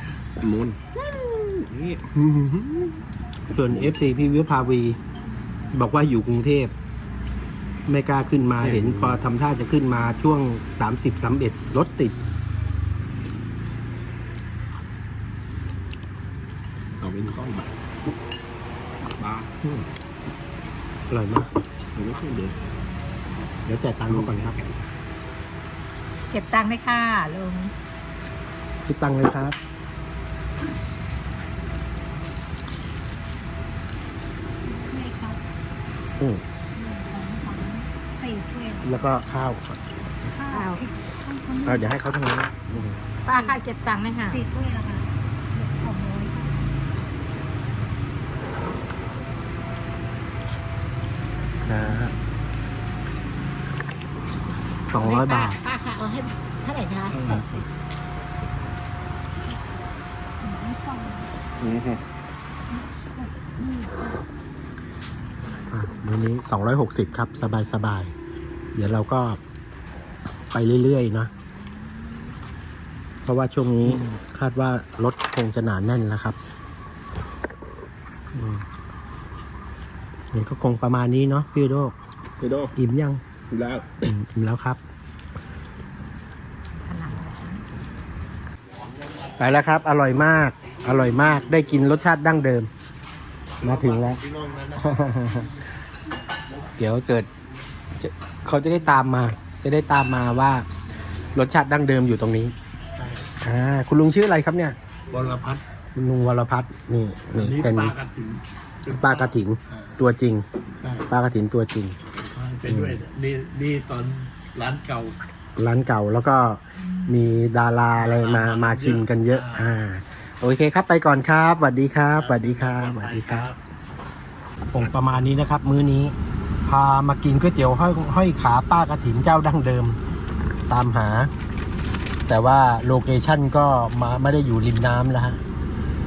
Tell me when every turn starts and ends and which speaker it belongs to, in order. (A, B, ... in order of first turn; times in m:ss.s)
0:00.4-0:02.9 A
0:03.5-0:05.0 B
0:05.7-0:06.7 B
0:07.9-0:12.2 B
0:08.6-0:09.2 A
0:17.0-0:17.7 A
0:19.2-0:19.5 A
0:21.1-0:21.5 B
0:22.0-0:22.6 A
0:23.7-0:24.6 B
0:24.1-0:24.7 A
0:26.3-0:27.7 C
0:28.9-0:29.6 B
0:34.6-0:35.4 D
0:36.8-0:39.0 D
0:38.8-0:39.8 B
0:40.3-0:42.0 D
0:40.5-0:40.8 C
0:41.6-0:43.0 B
0:43.3-0:44.4 C
0:43.3-0:43.6 D
0:44.3-0:46.6 D
0:51.7-0:52.2 B
0:54.9-0:55.6 B
0:55.0-0:57.5 C
0:57.1-0:57.6 B
1:00.4-1:01.5 D
1:01.6-1:02.0 A
1:02.7-1:04.3 D
1:05.7-1:08.1 B
1:08.7-1:09.4 B
1:10.5-1:11.3 B
1:13.2-1:16.4 B
1:18.3-1:18.6 B
1:20.3-1:22.0 B
1:22.4-1:22.7 A
1:22.8-1:23.2 B
1:23.5-1:24.1 A
1:24.0-1:24.8 B
1:26.7-1:27.6 C
1:29.4-1:32.7 B
1:33.6-1:34.2 B
1:33.6-1:34.9 E
1:34.7-1:35.5 B
1:36.8-1:37.3 B
1:38.0-1:40.7 B
1:41.3-1:42.6 B
1:43.0-1:43.3 E
1:43.4-1:44.8 B
1:45.1-1:45.6 E
1:46.0-1:47.9 B
1:47.4-1:49.9 E
1:48.9-1:50.5 B
1:50.8-1:51.1 E
1:51.1-1:52.0 B
1:52.2-1:55.2 E
1:52.7-1:53.0 B
1:55.6-2:03.5 B
1:58.0-1:59.8 E
2:02.2-2:03.6 E
2:04.7-2:10.0 B
2:10.7-2:11.3 B
2:12.3-2:15.4 B